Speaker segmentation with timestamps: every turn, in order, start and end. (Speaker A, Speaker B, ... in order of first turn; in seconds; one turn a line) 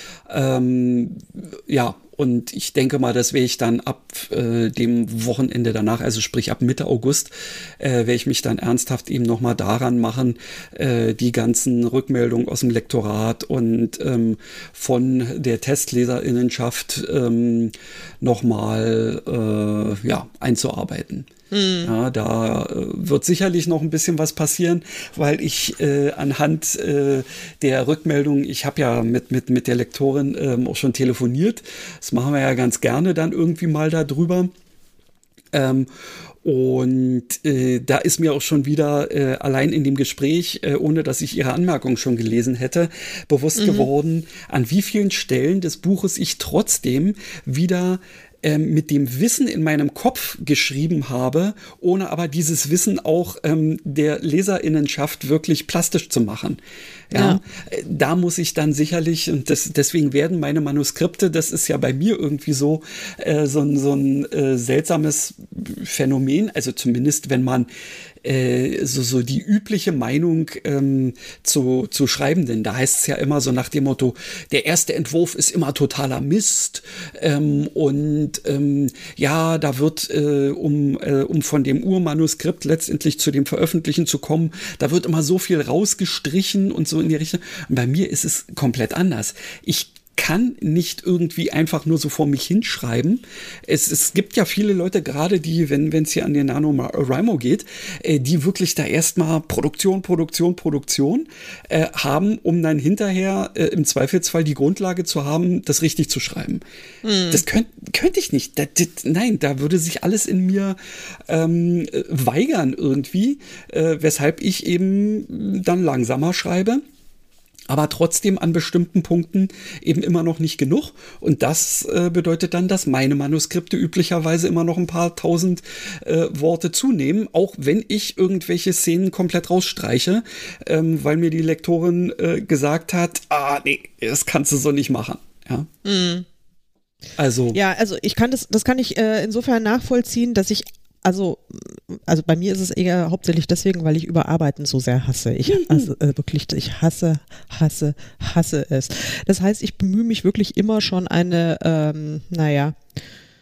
Speaker A: 0.3-21.3
Speaker B: 21.5-21.9
Speaker A: 21.8-34.5
Speaker A: 35.5-35.9
Speaker A: 36.4-56.6
Speaker B: 43.6-43.9
Speaker A: 57.1-67.7
Speaker B: 57.1-57.4
Speaker A: 68.2-106.6
Speaker B: 107.0-107.4
Speaker A: 107.3-110.8
Speaker A: 111.3-116.8
Speaker A: 117.7-135.7
Speaker B: 135.8-136.3
Speaker A: 137.2-137.6
Speaker B: 137.5-152.8
Speaker A: 145.5-145.9